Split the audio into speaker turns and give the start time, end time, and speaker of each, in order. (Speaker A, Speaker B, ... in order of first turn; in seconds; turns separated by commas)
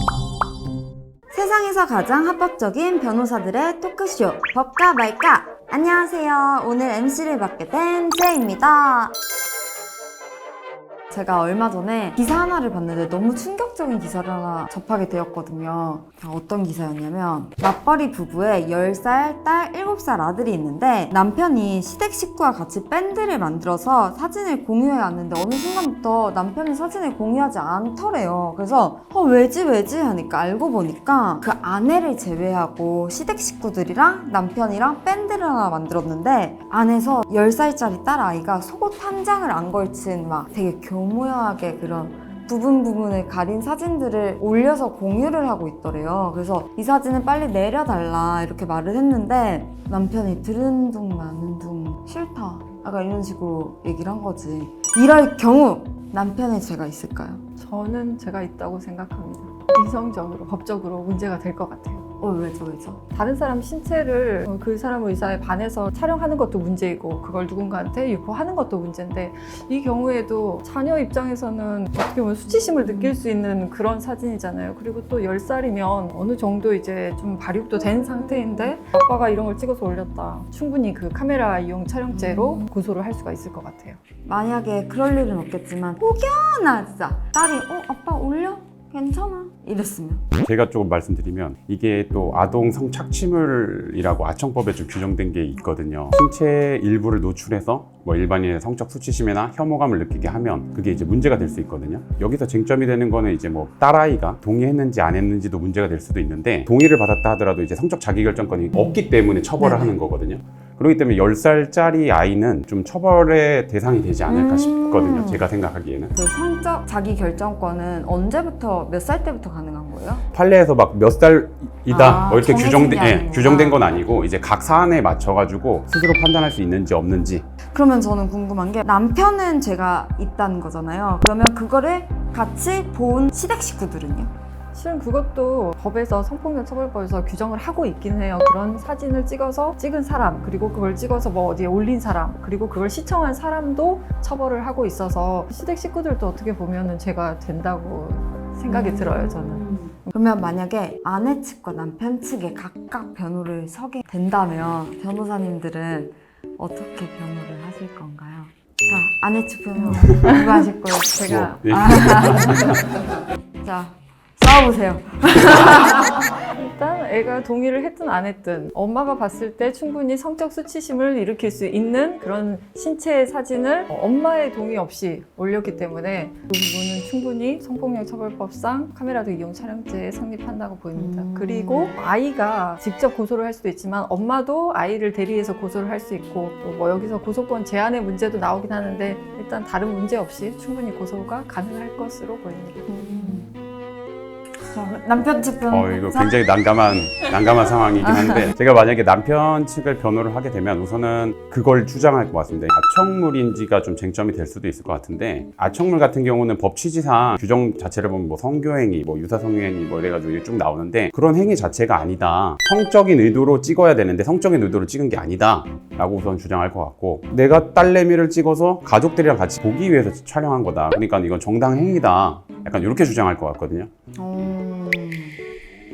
Speaker A: 1.3-9.1, Speaker A: 11.1-57.4, Speaker B: 57.6-62.0, Speaker A: 62.2-63.0, Speaker B: 63.1-84.0, Speaker A: 72.5-73.2, Speaker A: 77.7-78.7, Speaker A: 82.1-82.7, Speaker A: 84.2-90.3, Speaker C: 90.4-116.1, Speaker A: 109.6-110.0, Speaker A: 114.3-115.5, Speaker A: 116.1-120.2, Speaker C: 120.3-127.4, Speaker A: 121.9-123.9, Speaker A: 127.7-134.3, Speaker B: 134.7-150.1, Speaker A: 148.7-162.8, Speaker B: 159.8-161.6, Speaker C: 161.3-162.8, Speaker A: 163.6-166.2, Speaker B: 166.4-193.4, Speaker A: 180.9-181.9, Speaker A: 192.9-193.5, Speaker A: 194.7-196.3, Speaker C: 195.7-223.9, Speaker A: 198.0-198.5, Speaker A: 224.2-225.4